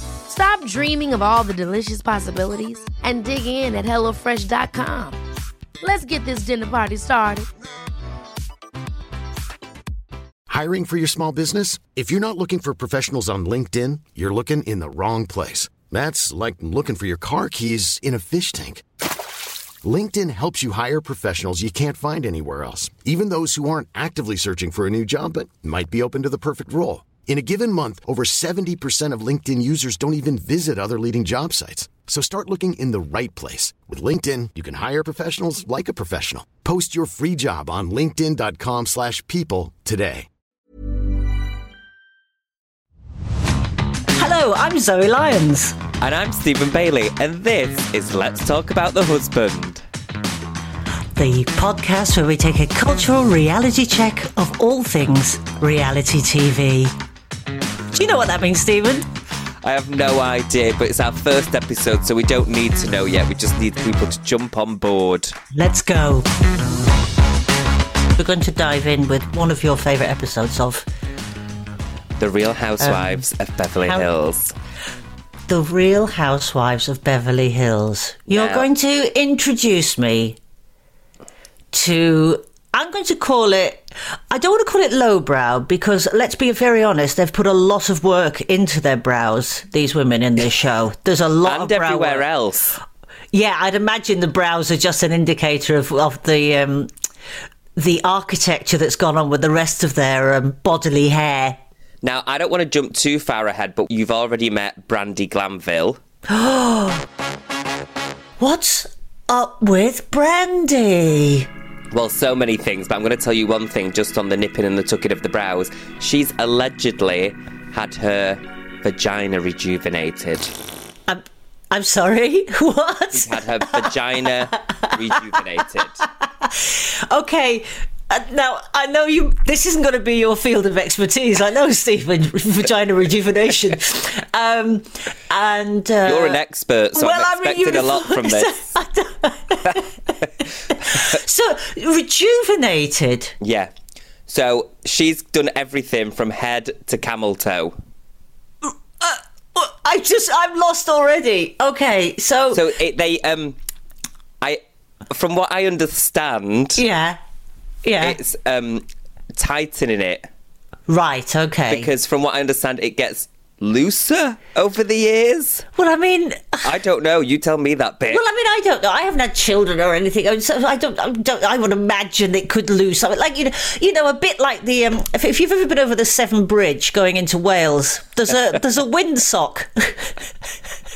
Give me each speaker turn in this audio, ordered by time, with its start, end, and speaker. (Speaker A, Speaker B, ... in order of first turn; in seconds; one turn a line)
Speaker A: 0.3-5.2
Speaker A: 5.8-7.5
Speaker B: 10.5-18.8
Speaker B: 19.8-40.3
Speaker C: 44.1-45.8
Speaker D: 46.0-49.8
Speaker C: 51.1-56.9
Speaker C: 57.9-59.1
Speaker D: 59.6-65.3
Speaker C: 65.5-66.2
Speaker C: 68.2-70.9
Speaker D: 72.2-74.5
Speaker C: 72.8-73.2
Speaker C: 75.5-80.4
Speaker D: 78.3-78.7
Speaker C: 81.7-92.2
Speaker D: 91.4-92.8
Speaker C: 93.3-96.9
Speaker C: 97.8-101.6
Speaker D: 102.0-106.0
Speaker C: 106.3-107.0
Speaker C: 108.4-111.5
Speaker D: 111.9-120.5
Speaker C: 121.1-123.9
Speaker D: 123.1-126.0
Speaker C: 124.7-136.4
Speaker D: 136.0-138.7
Speaker C: 136.9-140.1
Speaker C: 140.7-143.3
Speaker D: 143.4-143.7
Speaker D: 144.3-147.7
Speaker C: 148.6-152.7
Speaker D: 152.5-153.6
Speaker D: 154.4-156.8
Speaker C: 156.8-157.2
Speaker C: 157.8-158.2
Speaker D: 158.0-158.8
Speaker D: 159.3-160.3
Speaker C: 160.9-161.9
Speaker D: 161.7-165.7
Speaker C: 165.8-166.7
Speaker D: 166.6-168.2
Speaker C: 168.1-180.3